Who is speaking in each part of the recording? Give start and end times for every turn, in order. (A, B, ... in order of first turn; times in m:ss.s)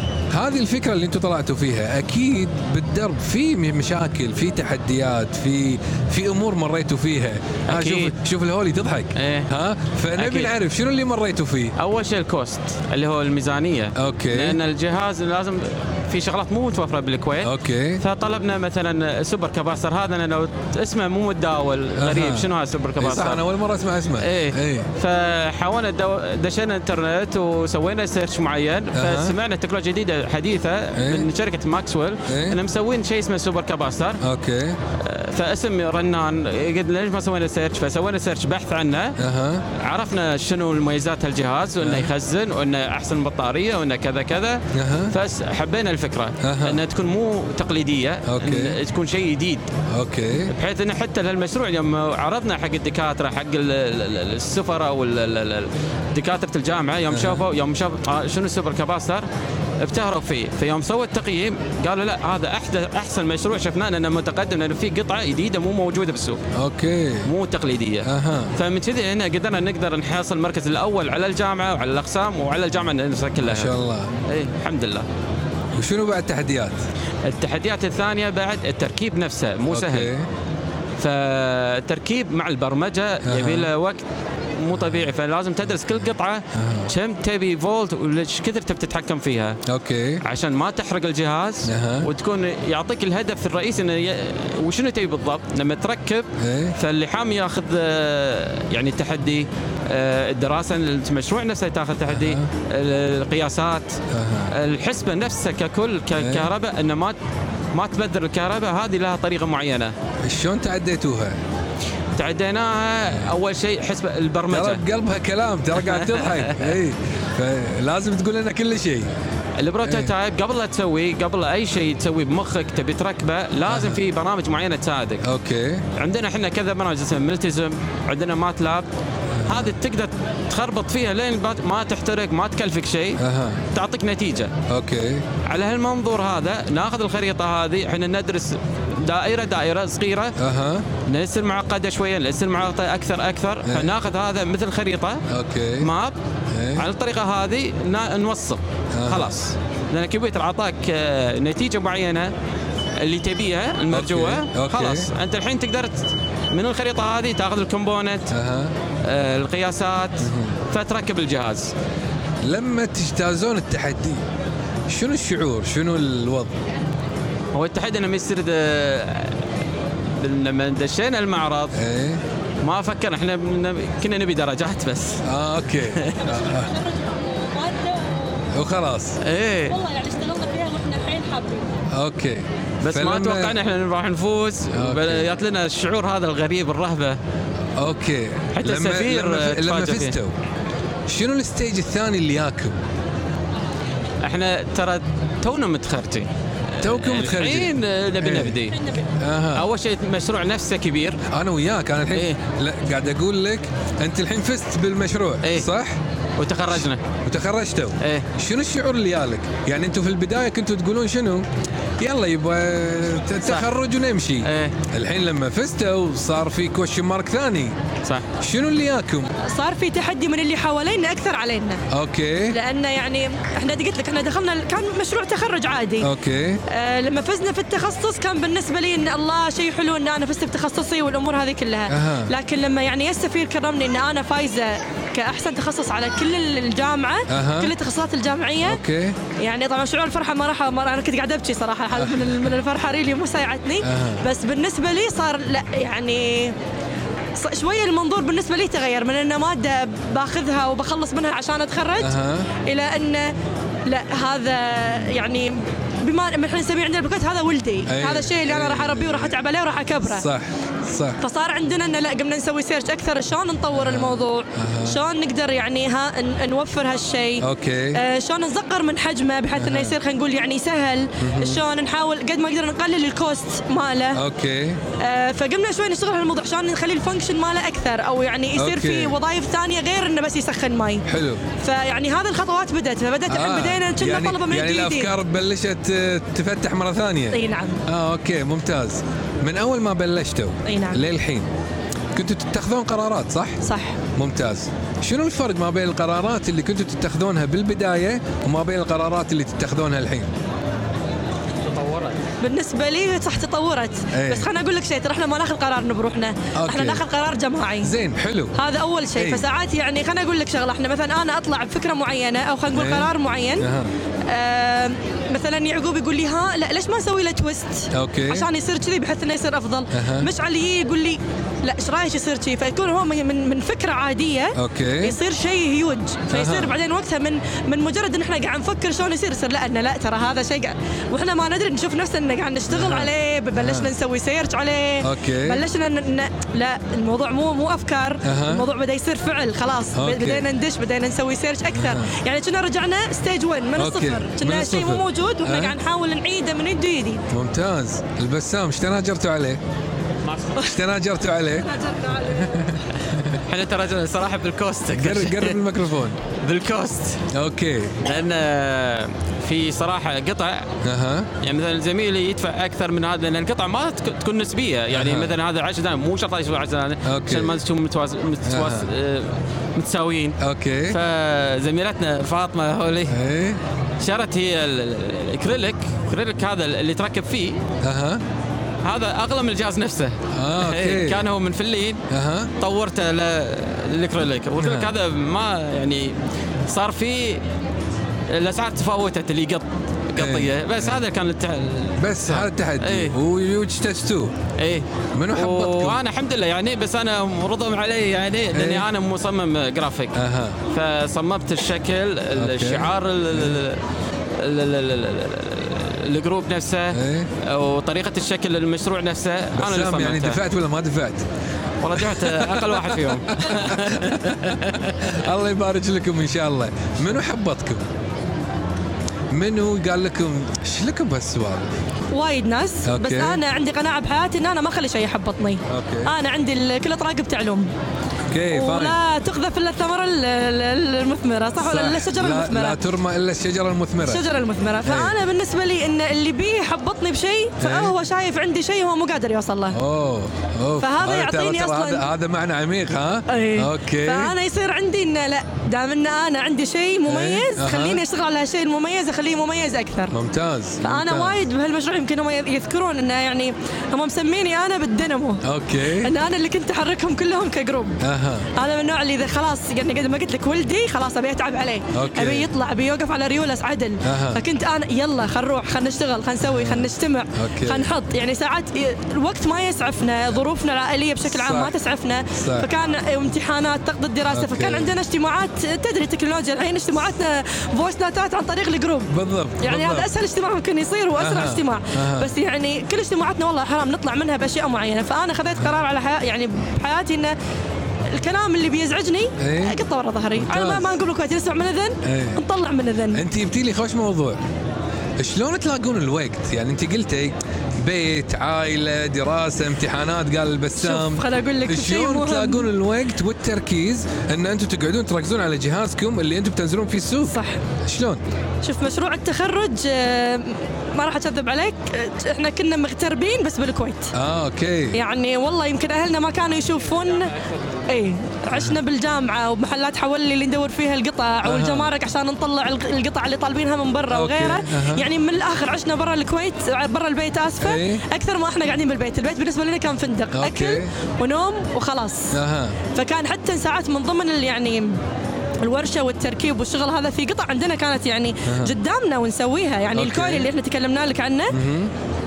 0:00.3-0:11.7 A
0:07.7-0:08.1 B
0:09.2-0:09.5 B
0:10.2-0:10.5 B
0:11.8-0:23.4 B
0:14.0-0:14.6 A
0:17.4-0:18.0 A
0:22.0-0:24.9 A
0:24.2-0:34.2 B
0:28.9-0:29.3 A
0:31.0-0:31.3 A
0:32.3-0:32.6 A
0:34.2-0:34.8 A
0:35.0-0:39.2 B
0:39.2-0:39.6 A
0:39.8-0:49.7 B
0:41.8-0:42.1 A
0:44.7-0:45.1 A
0:46.4-0:46.8 A
0:48.3-0:48.8 A
0:49.9-0:50.5 A
0:50.5-0:59.2 B
0:57.1-0:57.4 A
0:59.8-1:06.4 B
1:06.5-1:07.3 A
1:07.2-1:13.7 B
1:08.0-1:08.5 A
1:13.4-1:14.1 A
1:14.3-1:15.0 B
1:15.8-1:16.8 A
1:17.2-1:20.1 B
1:19.7-1:20.3 A
1:21.0-1:24.0 B
1:23.2-1:23.7 A
1:24.6-1:29.6 B
1:26.5-1:26.9 A
1:29.6-1:30.2 A
1:30.2-1:47.2 B
1:31.6-1:32.1 A
1:36.4-1:36.8 A
1:42.1-1:42.5 A
1:44.1-1:44.5 A
1:46.2-1:46.5 A
1:47.7-1:49.9 B
1:50.2-1:51.4 A
1:52.1-1:54.8 B
1:54.5-1:59.1 A
1:55.8-1:56.7 B
1:59.6-2:05.2 B
1:59.8-2:00.1 A
2:03.7-2:04.0 A
2:05.2-2:05.8 A
2:06.0-2:08.9 B
2:09.3-2:09.7 A
2:09.4-2:13.2 B
2:13.2-2:13.6 A
2:13.7-2:14.5 B
2:14.7-2:15.3 A
2:15.4-2:20.4 B
2:20.4-2:20.9 A
2:21.0-2:25.2 B
2:23.6-2:23.9 A
2:25.3-2:25.9 A
2:25.8-2:26.1 B
2:26.5-2:26.8 A
2:26.8-2:32.3 B
2:28.9-2:29.3 A
2:33.0-2:38.3 B
2:33.9-2:35.1 A
2:38.3-2:38.7 A
2:39.0-2:41.7 B
2:40.2-2:40.6 A
2:42.4-2:44.2 A
2:44.9-2:46.5 A
2:47.5-2:49.4 B
2:50.2-2:51.8 B
2:51.7-2:52.2 A
2:52.6-2:55.2 B
2:55.2-2:56.7 A
2:55.9-2:56.2 B
2:56.3-2:58.4 C
2:58.5-2:59.2 A
2:59.2-2:59.8 B
2:59.7-3:01.7 C
3:01.9-3:03.6 A
3:02.8-3:07.2 B
3:04.7-3:05.2 A
3:07.8-3:10.3 A
3:08.5-3:10.2 B
3:11.1-3:12.8 A
3:14.2-3:18.9 B
3:16.8-3:18.6 A
3:19.2-3:19.6 A
3:19.5-3:21.2 B
3:21.3-3:26.0 A
3:22.1-3:22.4 B
3:25.4-3:25.7 B
3:26.4-3:27.0 B
3:27.2-3:31.5 A
3:28.0-3:28.3 B
3:32.0-3:37.7 A
3:34.4-3:34.8 B
3:38.4-3:39.3 A
3:39.4-3:41.8 C
3:41.9-3:42.6 A
3:42.5-3:46.1 C
3:46.0-3:46.6 A
3:46.7-3:58.8 C
3:51.9-3:52.3 A
3:57.3-3:57.7 A
3:58.6-3:59.2 A
3:59.4-4:06.6 C
4:01.9-4:02.4 A
4:03.8-4:04.2 A
4:07.4-4:13.3 C
4:12.0-4:12.5 A
4:13.8-4:20.3 C
4:17.9-4:19.4 A
4:20.0-4:21.2 A
4:21.2-4:34.2 C
4:23.7-4:25.0 A
4:27.4-4:28.0 A
4:29.6-4:30.0 A
4:31.2-4:31.6 A
4:34.1-4:34.8 A
4:35.0-4:41.0 C
4:38.6-4:39.2 A
4:41.0-4:41.4 A
4:41.6-4:45.1 C
4:43.3-4:51.5 A
4:47.3-4:47.8 C
4:50.6-4:51.0 C
4:52.1-4:53.6 A
4:53.6-4:54.0 C
4:54.1-5:00.3 A
5:01.7-5:02.1 B
5:02.4-5:07.9 C
5:04.1-5:04.5 A
5:06.5-5:07.0 A
5:07.8-5:08.6 A
5:08.5-5:13.7 C
5:09.2-5:09.4 A
5:12.7-5:13.9 A
5:14.3-5:47.2 C
5:17.9-5:18.5 A
5:19.9-5:20.3 A
5:24.5-5:25.2 A
5:26.3-5:26.7 A
5:32.7-5:33.9 A
5:35.0-5:35.6 A
5:38.2-5:38.6 A
5:39.9-5:40.5 A
5:41.7-5:42.1 A
5:43.8-5:45.8 A
5:47.3-5:49.6 A
5:50.3-5:50.6 B
5:50.6-5:51.7 A
5:51.6-5:52.7 C
5:52.3-5:53.4 A
5:53.4-5:55.6 B
5:54.9-5:56.2 A
5:56.4-5:57.2 B
5:57.3-5:58.0 A
5:58.0-6:00.7 B
6:00.8-6:01.3 A
6:01.4-6:10.4 B
6:04.9-6:05.3 A
6:07.0-6:07.6 A
6:08.4-6:08.9 A
6:10.4-6:11.0 A
6:10.9-6:13.2 B
6:13.1-6:13.6 A
6:14.0-6:17.6 B
6:17.8-6:18.2 A
6:18.8-6:22.0 B
6:20.3-6:21.2 A
6:22.1-6:22.5 A
6:22.6-6:26.1 B
6:24.6-6:24.9 A
6:26.7-6:27.4 B
6:28.3-6:33.1 B
6:30.2-6:31.0 A
6:32.0-6:34.3 A
6:34.6-6:40.2 B
6:35.1-6:36.0 A
6:38.5-6:38.9 A
6:40.1-6:40.6 A
6:40.7-6:43.8 B
6:42.3-6:43.6 A
6:44.4-6:50.4 B
6:46.9-6:47.3 A
6:49.5-6:51.2 A
6:51.8-6:55.0 B
6:51.9-6:57.9 A
6:59.3-7:01.7 A
7:02.1-7:07.7 C
7:02.8-7:03.4 A
7:05.7-7:06.1 A
7:08.3-7:09.0 A
7:08.5-7:12.8 C
7:11.6-7:14.2 A
7:14.0-7:19.8 C
7:14.8-7:15.2 A
7:17.6-7:17.9 A
7:19.7-7:24.3 A
7:20.8-7:22.0 C
7:23.3-7:30.1 C
7:27.0-7:28.0 A
7:30.1-7:31.4 A
7:30.8-7:38.0 C
7:35.4-7:36.1 A
7:38.0-7:38.5 A
7:38.5-8:07.3 C
7:41.9-7:42.5 A
7:44.0-7:44.4 A
7:46.4-7:47.9 A
7:51.3-7:51.7 A
7:52.3-7:52.7 A
7:54.3-7:54.9 A
7:59.1-8:00.1 A
8:01.2-8:02.3 A
8:08.1-8:13.2 C
8:09.4-8:09.8 A
8:10.4-8:11.0 A
8:12.0-8:12.4 A
8:13.1-8:14.4 A
8:15.2-8:28.2 A
8:20.8-8:22.7 C
8:27.2-8:27.6 C
8:28.6-8:34.1 C
8:34.1-8:35.0 A
8:34.9-8:37.3 C
8:37.8-8:52.3 C
8:41.4-8:41.9 A
8:44.1-8:45.0 A
8:47.6-8:48.0 A
8:50.3-8:50.9 A
8:52.3-8:52.8 A
8:52.9-8:55.0 C
8:55.6-9:01.6 C
8:58.4-8:58.7 A
8:59.9-9:00.5 A
9:01.5-9:01.9 A